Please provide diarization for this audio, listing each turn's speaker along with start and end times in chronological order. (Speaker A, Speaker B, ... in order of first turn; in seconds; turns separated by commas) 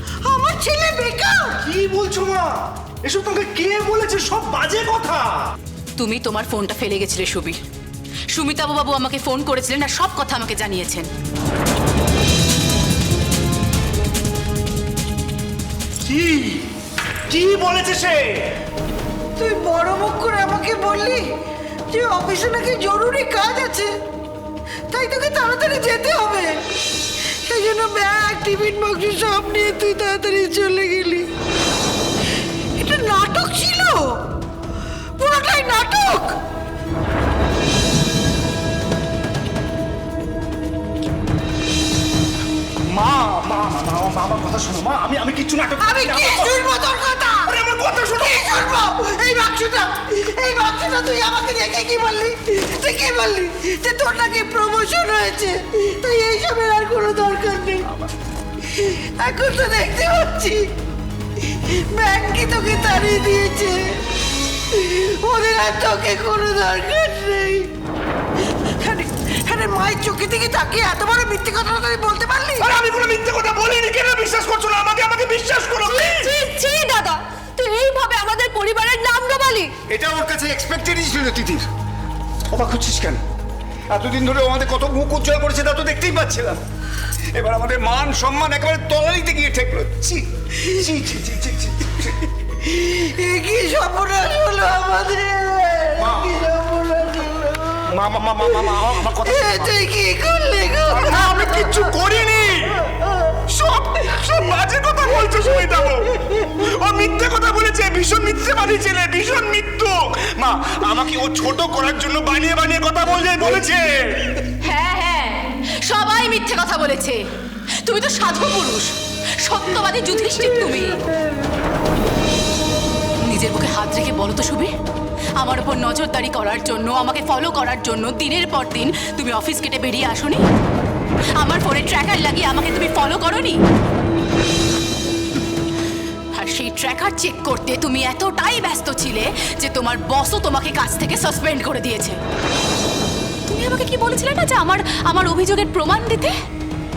Speaker A: 0.2-1.5, Speaker B: 1.6-5.4, Speaker C: 6.0-7.6, Speaker C: 8.3-11.1, Speaker B: 16.1-16.6, Speaker B: 17.3-18.2, Speaker A: 19.4-21.2, Speaker A: 21.9-23.9, Speaker A: 24.9-26.5, Speaker A: 27.5-31.3, Speaker A: 32.8-34.1, Speaker A: 35.2-36.3, Speaker B: 42.9-46.6, Speaker A: 45.8-47.5, Speaker B: 47.5-48.6, Speaker A: 48.1-57.9, Speaker A: 58.7-60.6, Speaker A: 61.4-63.8, Speaker A: 64.7-67.7, Speaker A: 68.8-72.7, Speaker B: 72.6-76.4, Speaker D: 75.8-79.7, Speaker E: 79.9-81.6, Speaker E: 82.5-83.2, Speaker E: 83.9-86.6, Speaker E: 87.3-92.0, Speaker A: 92.6-97.8, Speaker B: 97.9-99.7, Speaker A: 99.2-101.7, Speaker B: 101.0-102.7, Speaker B: 103.5-113.9, Speaker C: 114.6-117.2, Speaker C: 117.8-118.9, Speaker C: 119.4-121.0, Speaker C: 123.2-124.7, Speaker C: 125.4-130.4, Speaker C: 131.4-133.6, Speaker C: 136.3-142.2, Speaker C: 143.5-146.3